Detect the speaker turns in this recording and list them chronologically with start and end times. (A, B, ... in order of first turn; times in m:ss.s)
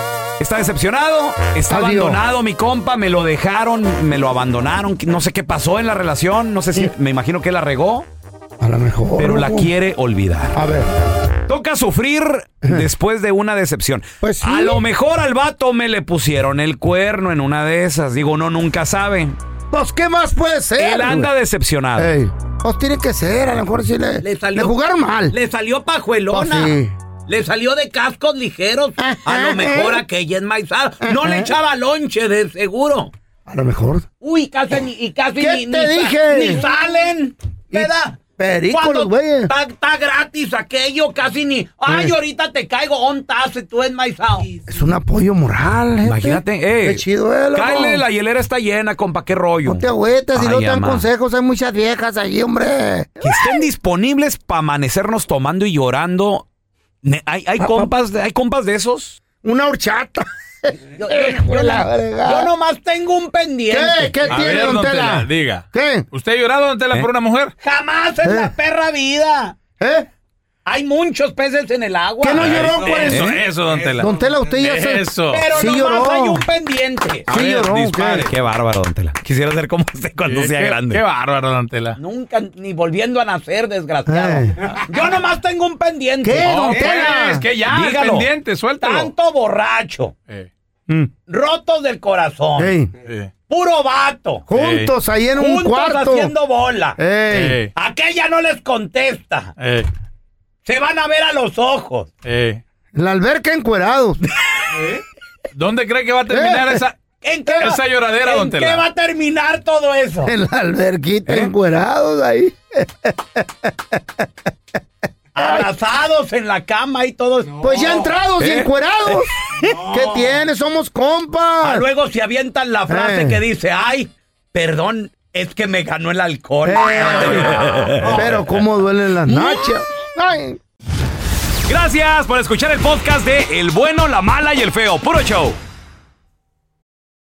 0:00.4-0:08.1 A
0:01.7-0:02.2 B
0:08.6-0:09.7 B
0:09.2-0:10.5 A
0:10.5-0:10.9 B
0:11.5-0:19.4 A
0:14.2-0:14.8 B
0:19.7-0:21.3 B
0:20.8-0:22.1 A
0:22.0-0:25.4 B
0:24.2-0:24.7 C
0:25.3-0:33.1 C
0:26.3-0:26.9 B
0:29.0-0:30.0 B
0:31.0-0:31.5 B
0:33.4-0:34.1 B
0:34.2-0:38.2 C
0:35.4-0:36.7 B
0:37.7-0:39.5 B
0:38.7-0:44.5 C
0:44.6-0:48.0 B
0:46.0-0:47.0 A
0:47.5-0:49.8 A
0:49.6-0:53.4 B
0:50.3-0:51.0 A
0:53.2-0:56.4 A
0:57.0-0:59.2 A
0:57.6-0:57.9 B
0:59.4-1:02.5 B
1:01.0-1:04.4 C
1:03.7-1:06.0 B
1:04.3-1:07.5 D
1:07.6-1:09.6 C
1:08.2-1:08.5 B
1:09.8-1:10.1 B
1:10.6-1:13.1 C
1:12.2-1:16.4 B
1:12.3-1:15.5 D
1:13.1-1:13.4 A
1:15.3-1:17.3 C
1:17.3-1:18.3 B
1:17.3-1:21.0 A
1:17.3-1:17.9 D
1:20.3-1:22.0 D
1:22.0-1:28.2 C
1:24.1-1:24.6 B
1:26.2-1:27.4 B
1:26.4-1:29.1 D
1:27.8-1:28.3 A
1:28.8-1:30.1 C
1:31.3-1:32.7 C
1:32.6-1:32.9 B
1:33.0-1:33.3 D
1:33.4-1:34.5 C
1:34.5-1:36.3 B
1:34.5-1:34.9 D
1:35.4-1:37.0 C
1:37.0-1:37.6 B
1:37.3-1:37.7 D
1:37.7-1:39.5 C
1:39.6-1:39.9 D
1:40.6-1:42.1 C
1:42.2-1:42.6 D
1:42.9-1:44.2 B
1:44.7-1:45.0 D
1:45.5-1:47.0 D
1:46.3-1:46.8 B
1:47.2-1:50.3 C
1:47.4-1:47.8 B
1:47.6-1:48.8 D
1:50.2-1:53.7 B
1:55.3-1:57.9 C
1:55.4-1:55.6 B
1:57.6-2:01.8 B
1:58.4-1:58.7 A
2:01.6-2:07.6 C
2:02.9-2:03.4 B
2:06.6-2:07.5 B
2:07.5-2:08.3 A
2:08.0-2:10.6 B
2:11.7-2:15.6 A